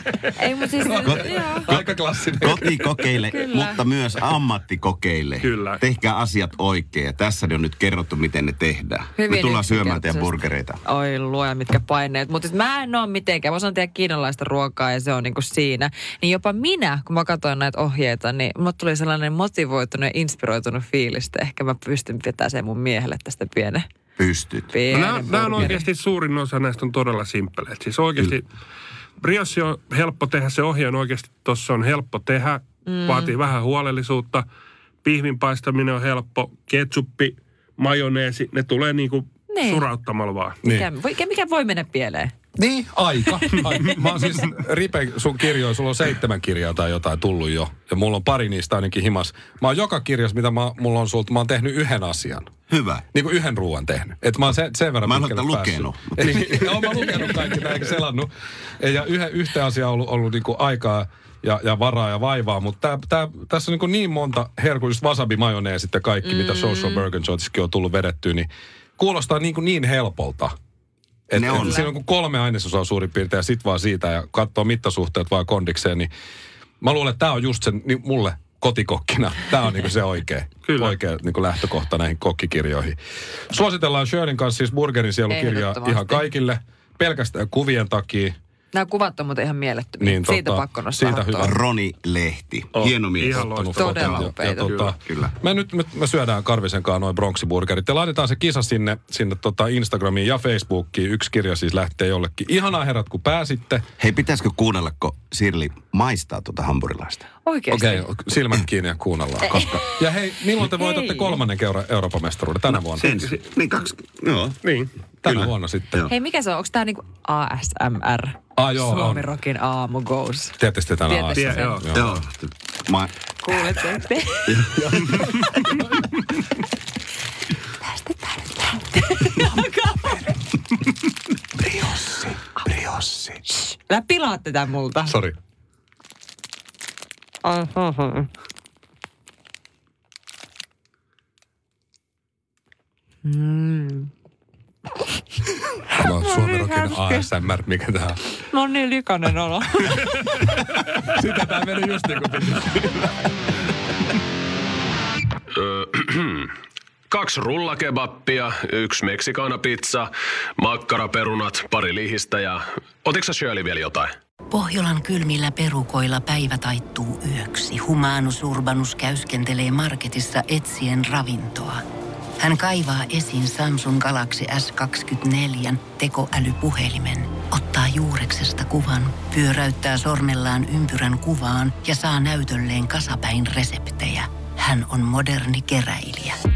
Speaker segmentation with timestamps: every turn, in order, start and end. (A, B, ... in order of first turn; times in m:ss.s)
0:00.2-0:01.7 A
0:00.9-0:02.8 B
0:01.0-0:01.7 C
0:02.4-0:10.8 C
0:03.3-0:03.8 A
0:05.4-0:05.8 D
0:09.2-0:10.3 A
0:10.8-0:23.9 A
0:24.2-0:24.7 C
0:24.7-0:25.9 A
0:24.9-0:28.5 D
0:29.2-0:34.4 D
0:32.8-0:33.4 A
0:35.0-0:40.6 D
0:39.5-0:39.8 A
0:40.6-0:42.3 A
0:42.6-0:52.5 B
0:43.3-0:43.7 A
0:52.7-0:53.0 C
0:53.1-0:58.3 B
0:55.0-0:56.7 C
0:58.8-1:10.5 B
1:06.2-1:07.1 A
1:11.3-1:16.1 B
1:11.3-1:11.9 C
1:11.5-1:11.9 A
1:16.8-1:23.0 B
1:20.7-1:20.9 D
1:23.5-1:28.4 B
1:25.3-1:26.3 A
1:28.7-1:31.5 A
1:30.0-1:31.5 B
1:31.4-1:35.3 C
1:32.8-1:34.0 D
1:33.3-1:43.8 B
1:33.7-1:34.7 A
1:44.0-1:47.3 C
1:47.4-1:48.1 A
1:47.7-1:53.1 B
1:49.4-1:50.0 A
1:50.6-1:51.4 A
1:53.0-1:54.6 C
1:54.6-1:54.9 D
1:55.2-1:56.1 B
1:55.3-1:56.1 C
1:56.1-2:01.8 A
1:58.6-1:59.2 B
2:00.6-2:02.2 B
2:01.3-2:01.8 D
2:01.9-2:03.2 C
2:03.4-2:04.7 A
2:04.5-2:04.8 C
2:04.8-2:05.2 B
2:05.3-2:05.9 A
2:07.8-2:10.4 A
2:11.6-2:15.2 A
2:15.1-2:15.4 B
2:17.4-2:18.3 A
2:23.2-2:24.1 A
2:25.9-2:27.3 A
2:25.9-2:28.2 B
2:28.5-2:30.3 A
2:30.4-2:33.1 B
2:35.6-2:36.5 E
2:37.1-2:44.1 E
2:44.5-2:51.8 F
2:52.4-3:06.4 F